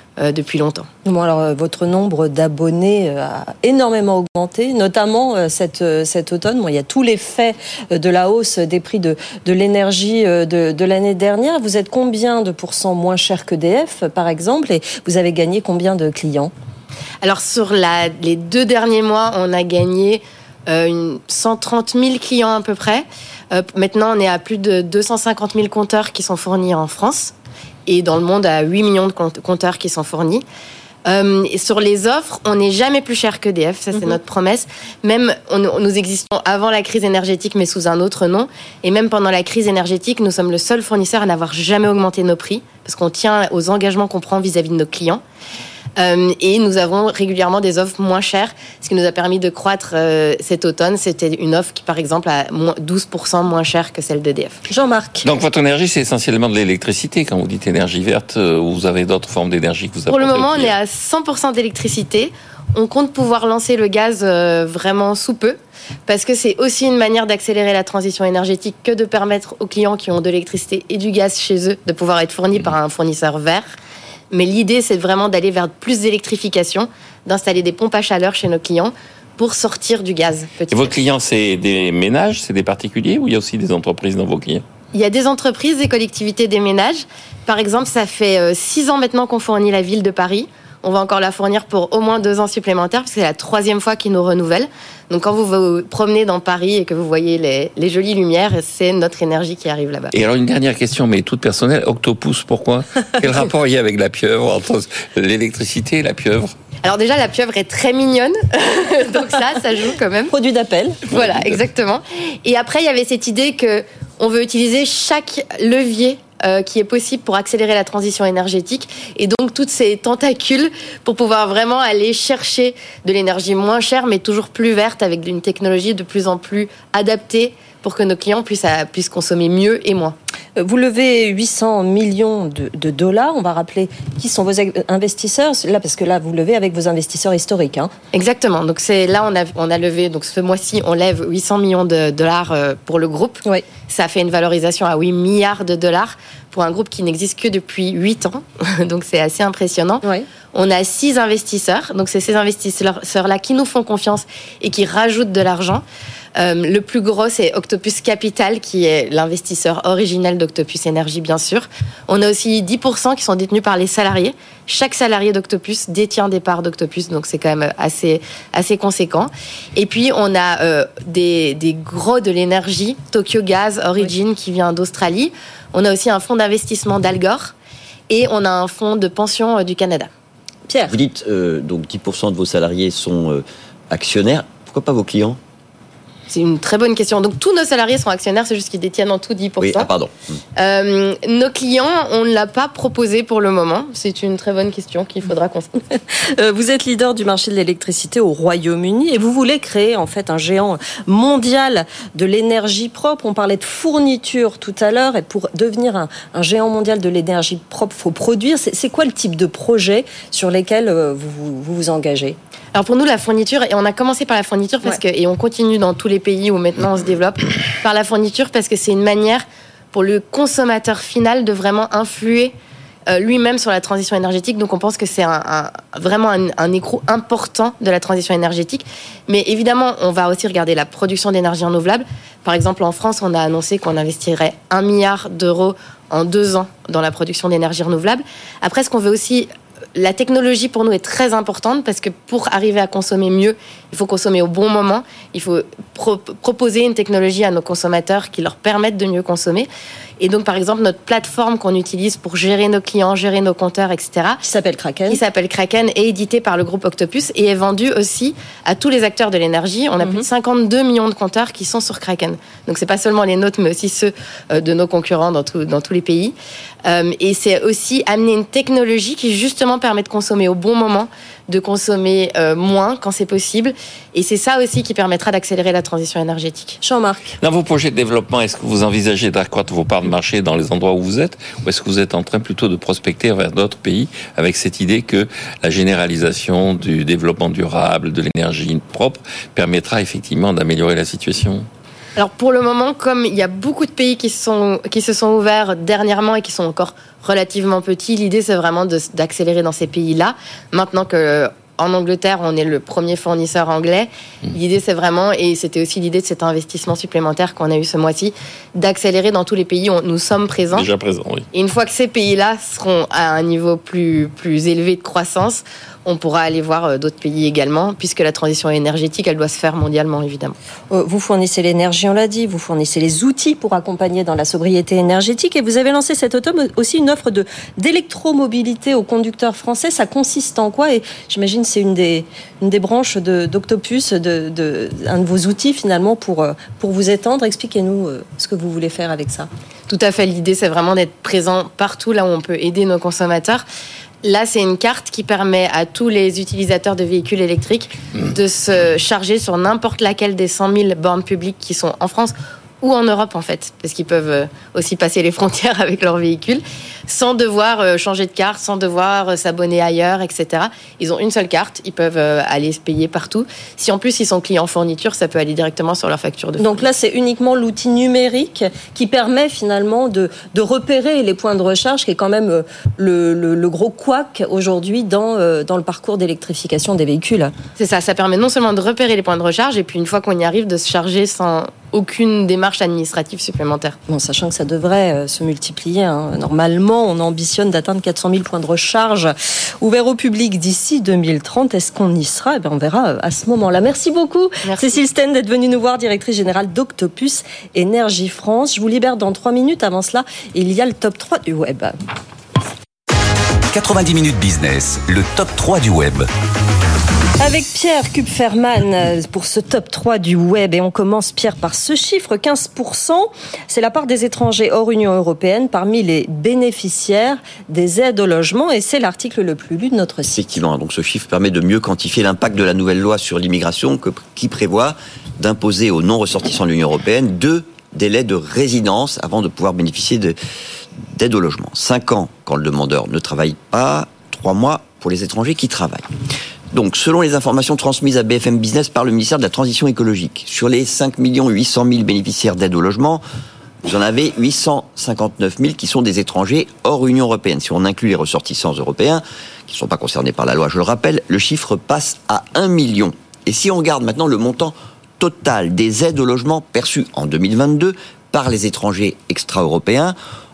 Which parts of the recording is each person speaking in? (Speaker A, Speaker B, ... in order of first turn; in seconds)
Speaker A: 0.2-0.9, 17.2-27.3, 27.9-30.4, 31.1-45.2, 46.0-54.6, 60.1-73.7, 74.3-81.0, 84.9-100.1, 106.8-110.3, 111.1-130.2, 138.1-155.8, 156.4-177.5, 178.1-180.1, 186.3-189.9, 190.6-195.8, 212.7-222.5, 223.1-249.7, 250.2-254.4, 255.1-276.8, 292.2-310.9, 311.5-320.6, 339.9-343.6, 344.2-366.9, 377.8-384.0, 394.6-395.0
Speaker B: 1.1-16.5, 54.7-55.3, 110.3-111.0, 130.6-137.9, 180.7-180.9, 195.9-212.4, 254.4-255.2, 276.8-277.4, 320.9-339.5, 366.6-377.5, 384.1-401.9, 407.4-420.5
Speaker C: 55.2-60.7, 80.7-84.6, 100.1-106.5, 111.1-111.6, 277.4-291.7, 310.7-311.5
Speaker D: 180.9-185.4, 189.6-190.4, 420.3-430.4, 431.1-436.1, 436.7-443.2, 443.8-460.2
Speaker E: 403.7-406.3